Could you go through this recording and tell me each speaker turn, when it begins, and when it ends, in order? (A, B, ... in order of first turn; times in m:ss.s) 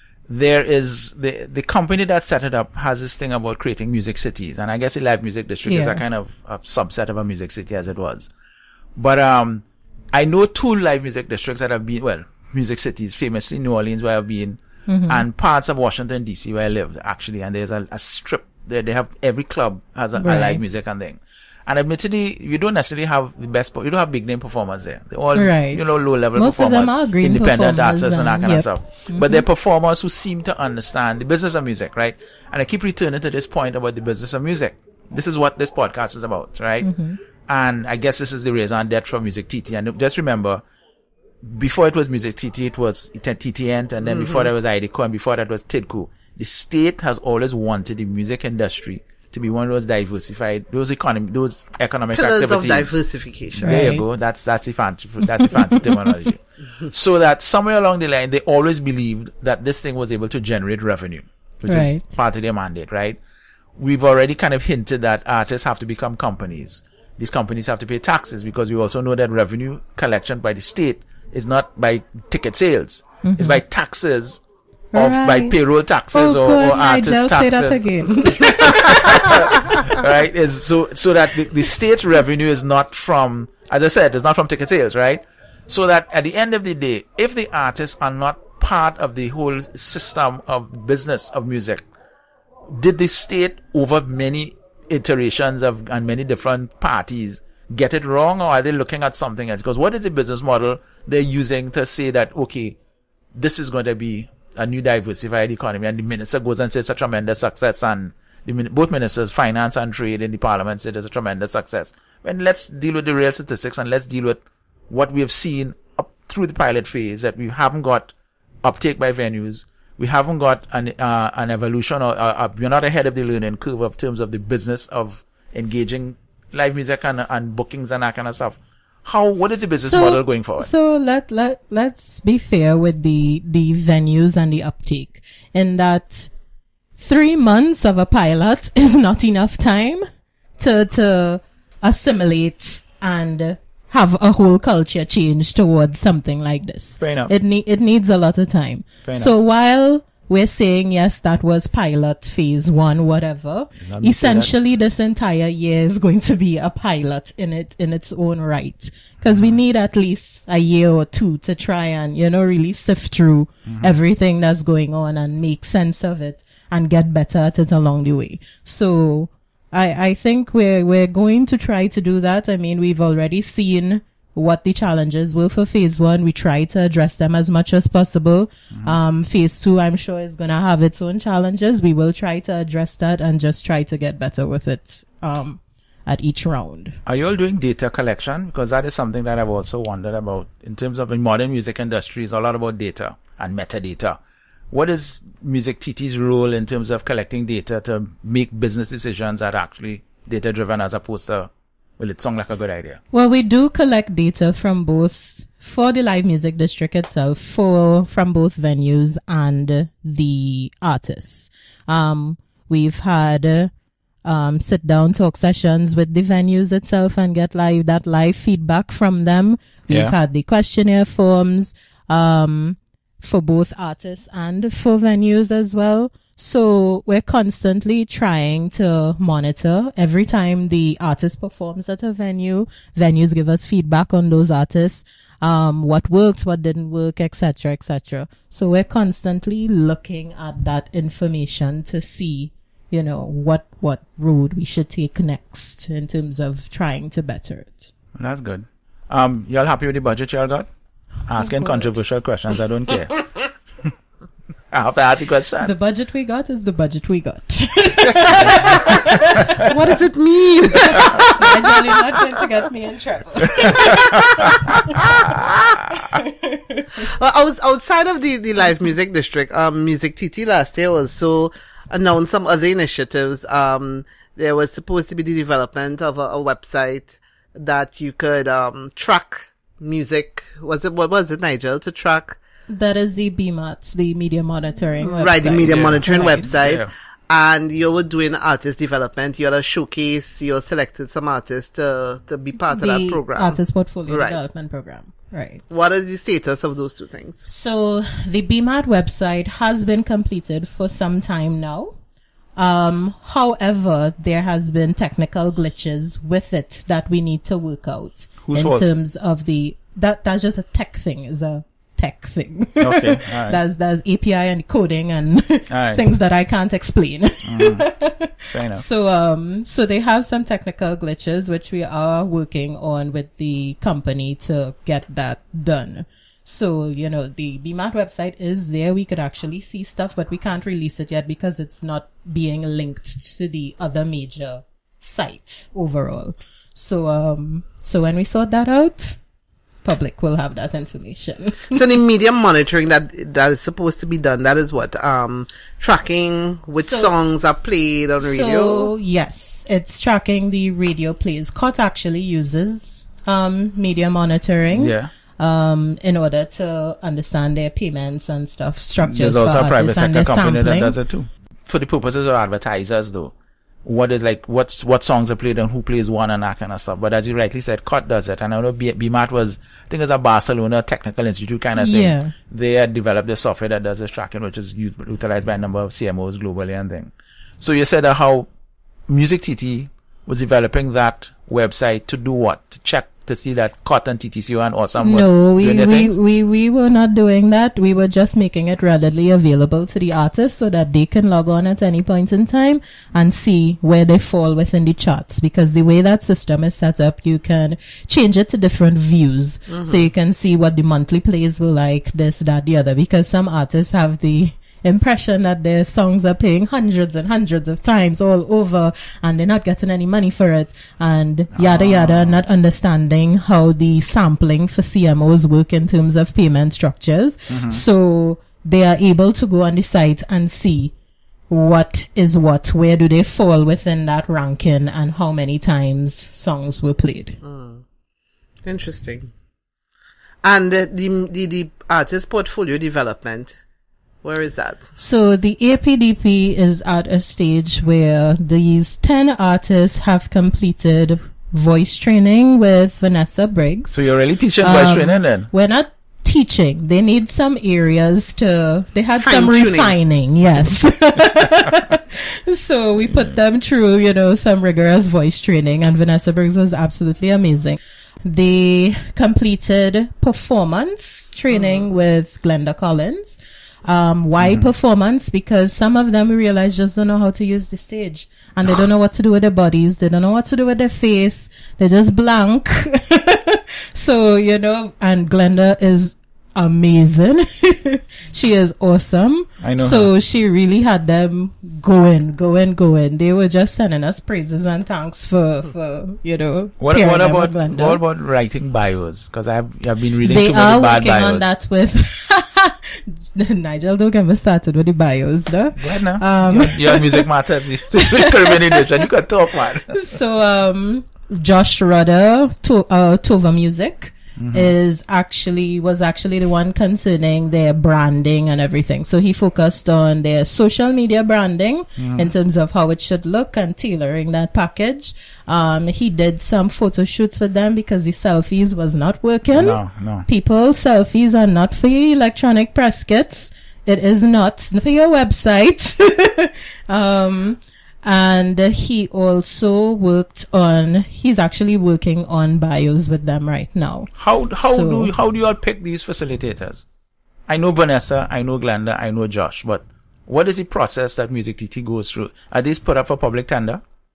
0:00.3-0:08.3 A
0:05.6-0:06.0 B
0:09.0-0:36.9 A
0:14.9-0:15.2 B
0:20.2-0:20.6 B
0:25.4-0:29.4 B
0:36.8-0:37.2 B
0:37.4-0:40.6 A
0:41.4-0:53.0 A
0:44.1-0:44.4 C
0:52.1-0:53.9 C
0:53.5-1:03.2 A
0:53.6-0:54.0 B
0:55.4-0:55.9 B
1:01.6-1:02.0 B
1:03.8-1:14.4 A
1:13.2-1:13.6 B
1:14.9-1:15.5 B
1:14.9-1:31.8 A
1:16.1-1:19.4 B
1:32.7-1:42.8 A
1:43.4-2:10.7 A
2:09.8-2:16.3 B
2:17.0-2:20.0 B
2:20.6-3:07.0 B
2:27.0-2:27.3 A
2:29.0-2:29.3 A
2:33.8-2:34.5 A
2:39.3-2:39.6 A
2:43.7-2:43.9 A
3:07.1-3:14.2 A
3:14.7-3:23.0 A
3:23.1-3:33.7 B
3:34.2-4:07.9 B
3:39.9-3:40.1 A
4:08.2-4:10.7 A
4:11.3-4:13.2 A
4:14.7-4:15.7 A
4:15.6-4:19.7 B
4:18.3-4:19.7 A
4:19.6-4:21.9 C
4:21.0-4:27.1 B
4:23.6-4:25.0 A
4:23.8-4:25.8 C
4:27.0-4:42.4 C
4:42.7-4:46.5 B
4:45.1-4:54.4 C
4:45.6-4:46.9 A
4:52.7-4:55.6 B
4:55.7-4:57.4 C
4:57.4-5:02.0 B
5:02.6-5:39.2 B
5:08.4-5:08.9 A
5:12.8-5:13.6 A
5:15.7-5:16.0 A
5:17.4-5:17.9 A
5:18.5-5:18.8 A
5:39.8-5:41.8 B
5:41.7-5:48.9 C
5:46.8-5:47.1 B
5:48.2-6:01.0 B
5:54.7-5:55.1 A
5:59.0-6:03.3 A
6:03.8-6:18.5 A
6:11.8-6:12.3 B
6:19.1-6:26.1 A
6:25.0-7:00.9 B
6:39.7-6:40.1 C
6:51.5-6:52.4 A
6:57.5-6:57.8 A
7:01.5-7:07.4 B
7:07.4-7:07.8 C
7:08.6-7:09.3 C
7:10.4-7:13.6 C
7:14.2-7:14.9 C
7:15.0-7:24.0 B
7:23.9-7:25.5 A
7:24.6-8:08.0 B
7:29.2-7:30.0 C
7:41.5-7:41.9 C
7:44.4-7:44.7 A
7:59.6-8:00.1 A
8:06.8-8:11.4 A
8:10.2-8:17.3 B
8:15.8-8:20.0 A
8:17.9-8:18.9 B
8:19.8-8:54.1 B
8:24.4-8:24.7 A
8:32.0-8:32.3 A
8:39.5-8:40.3 A
8:54.2-8:56.8 A
8:54.6-8:55.1 B
8:57.5-9:03.8 A